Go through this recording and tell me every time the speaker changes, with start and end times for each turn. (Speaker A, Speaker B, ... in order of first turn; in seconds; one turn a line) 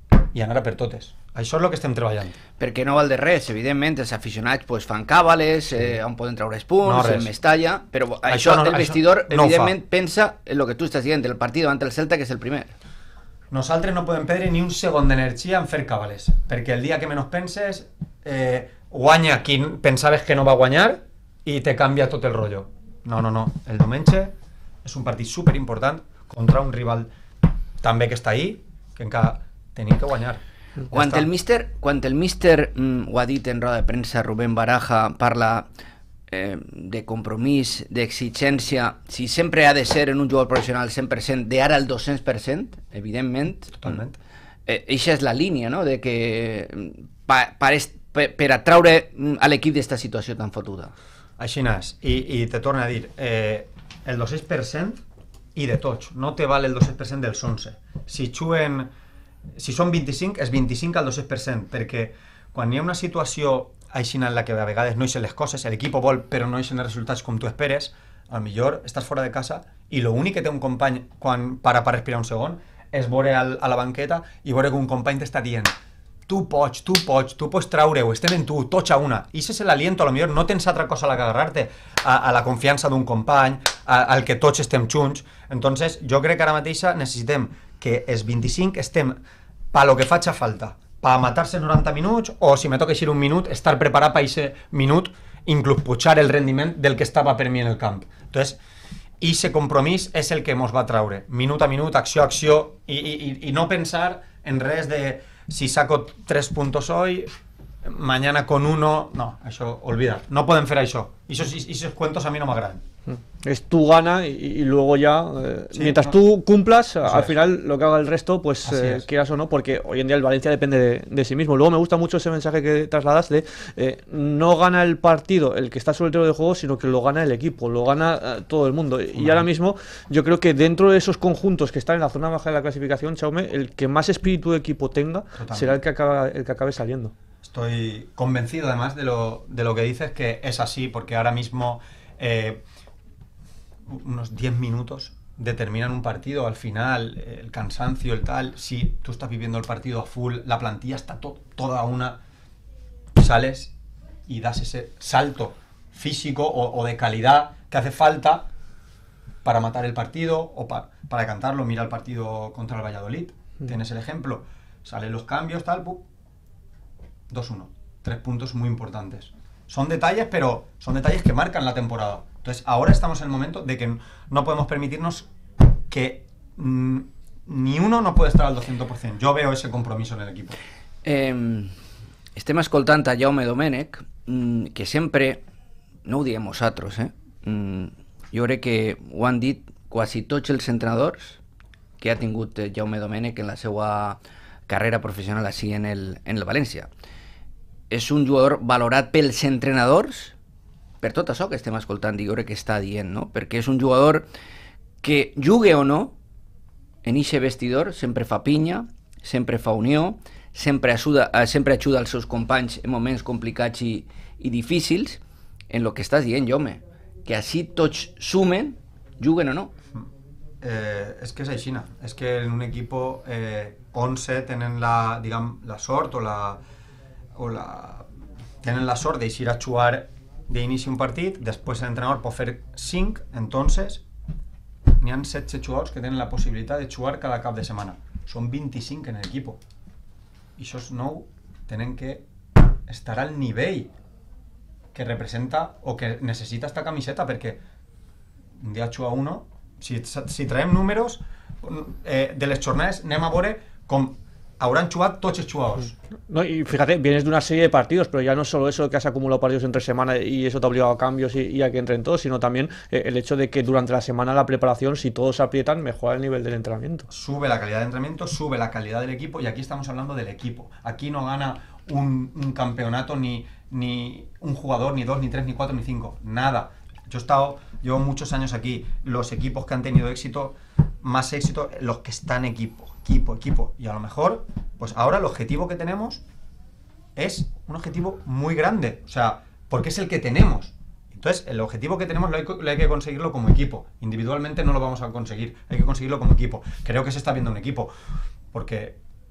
Speaker A: 0.3-2.4
Speaker B: 2.6-12.7
Speaker A: 6.8-7.3
Speaker A: 8.3-9.8
Speaker A: 13.5-24.3
Speaker A: 24.8-27.1
Speaker A: 27.8-31.3
Speaker B: 30.9-35.7
Speaker B: 36.3-44.0
Speaker A: 43.7-44.2
Speaker B: 44.7-50.9
Speaker A: 51.4-55.0
Speaker A: 55.5-58.9
Speaker A: 59.6-75.7
Speaker A: 76.3-89.2
Speaker A: 89.7-98.6
Speaker A: 99.2-107.3
Speaker A: 107.8-112.8
Speaker C: 113.1-137.1
Speaker A: 115.7-116.2
Speaker A: 117.0-117.4
Speaker A: 118.7-119.0
Speaker A: 129.2-129.5
Speaker A: 135.4-135.8
Speaker A: 137.4-142.6
Speaker A: 143.9-152.2
Speaker A: 153.2-153.7
Speaker A: 154.3-158.5
Speaker A: 159.4-166.1
Speaker A: 167.3-175.3
Speaker A: 175.9-180.6
Speaker B: 181.0-181.7
Speaker B: 182.4-185.4
Speaker B: 186.1-191.4
Speaker B: 192.0-196.9
Speaker B: 197.9-200.3
Speaker B: 201.0-204.3
Speaker B: 205.0-206.2
Speaker B: 207.0-219.7
Speaker A: 220.6-226.6
Speaker A: 227.3-228.1
Speaker A: 228.6-234.0
Speaker A: 235.0-239.6
Speaker A: 240.6-242.2
Speaker A: 242.9-243.9
Speaker A: 244.9-247.6
Speaker A: 248.6-255.9
Speaker C: 256.3-267.1
Speaker A: 267.1-286.2
Speaker A: 287.2-297.9
Speaker A: 298.5-299.0